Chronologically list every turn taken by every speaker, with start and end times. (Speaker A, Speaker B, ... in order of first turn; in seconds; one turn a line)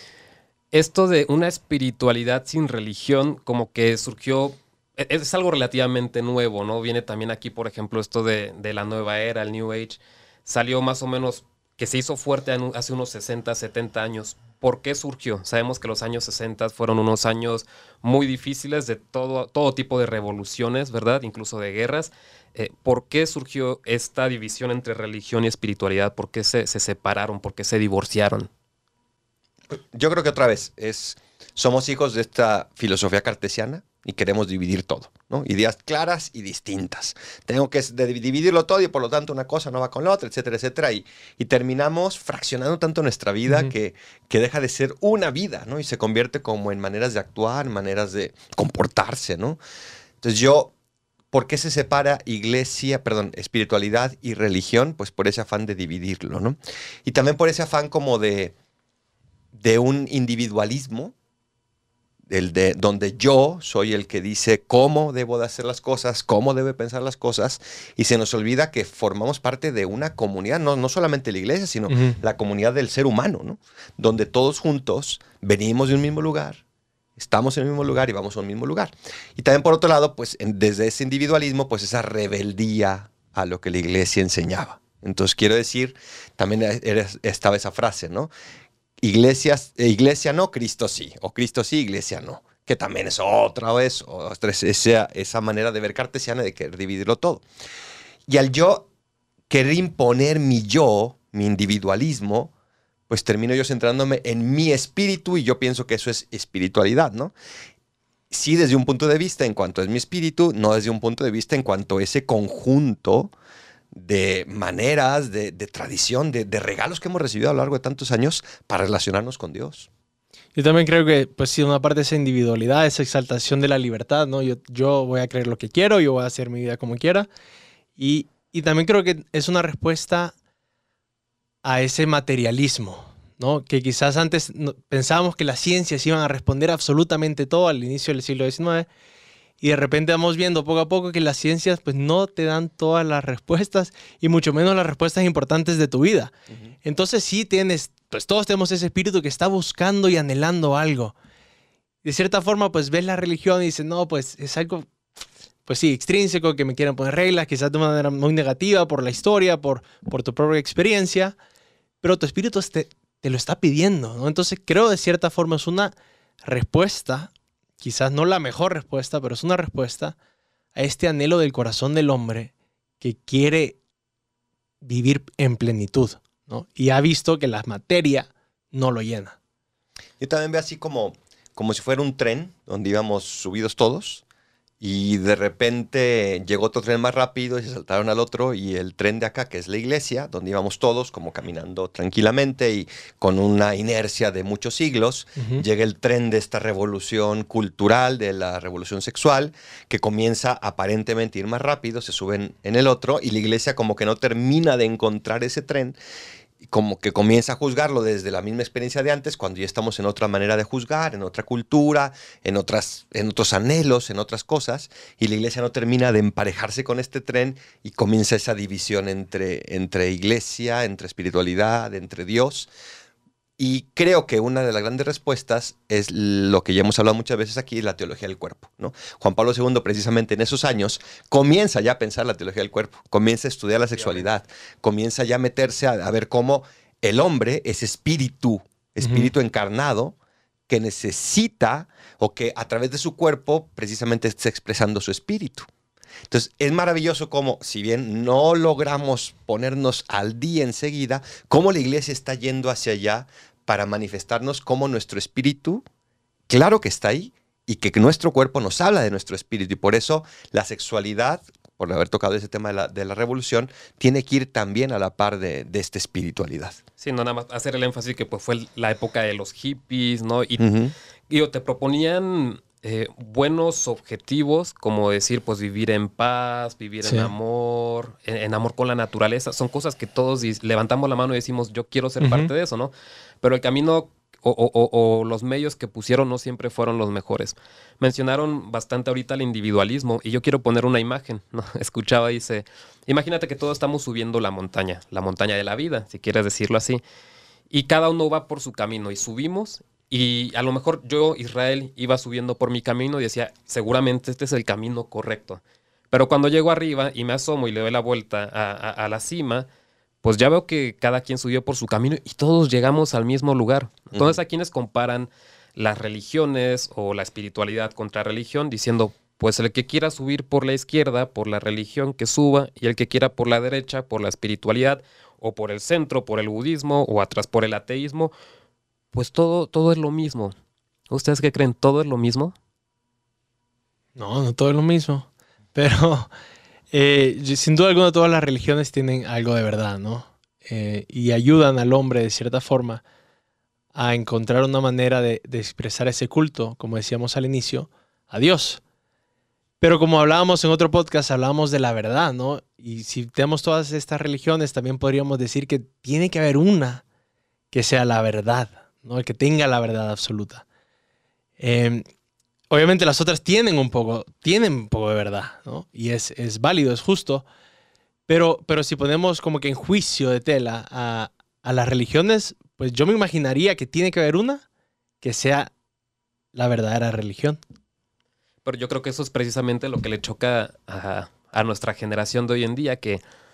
Speaker A: 0.7-28.5
Speaker B: 29.7-49.6
Speaker B: 50.2-50.7
Speaker B: 51.3-58.5
Speaker B: 59.5-61.1
Speaker B: 62.3-76.6
Speaker C: 71.9-72.2
Speaker B: 77.2-88.3
Speaker B: 89.0-97.4
Speaker B: 98.3-98.9
Speaker B: 99.5-102.5
Speaker B: 103.1-107.3
Speaker B: 108.3-113.3
Speaker B: 113.9-119.9
Speaker C: 120.5-127.3
Speaker C: 128.0-130.3
Speaker C: 131.6-138.9
Speaker C: 139.6-146.3
Speaker C: 146.8-151.2
Speaker C: 152.0-154.9
Speaker C: 155.7-161.3
Speaker C: 162.0-170.2
Speaker C: 170.8-173.8
Speaker C: 174.8-179.4
Speaker B: 180.2-184.2
Speaker B: 184.8-206.0
Speaker C: 195.4-195.6
Speaker B: 206.6-222.7
Speaker B: 223.6-240.2
Speaker A: 234.0-234.3
Speaker C: 239.0-239.3
Speaker B: 240.7-245.7
Speaker B: 246.3-255.8
Speaker B: 256.5-266.8
Speaker A: 267.0-270.6
Speaker B: 270.6-270.9
Speaker A: 271.3-297.0
Speaker C: 277.0-277.3
Speaker C: 282.2-282.5
Speaker A: 297.7-309.7
Speaker A: 310.2-328.3
Speaker A: 329.1-330.5
Speaker A: 331.1-332.6
Speaker C: 334.2-336.3
Speaker C: 336.9-343.0
Speaker C: 343.9-348.8
Speaker C: 349.8-357.0
Speaker C: 357.7-360.6
Speaker C: 361.6-362.1
Speaker C: 362.7-367.4
Speaker C: 368.3-374.6
Speaker C: 375.2-375.7
Speaker C: 376.5-377.6
Speaker A: 378.6-383.2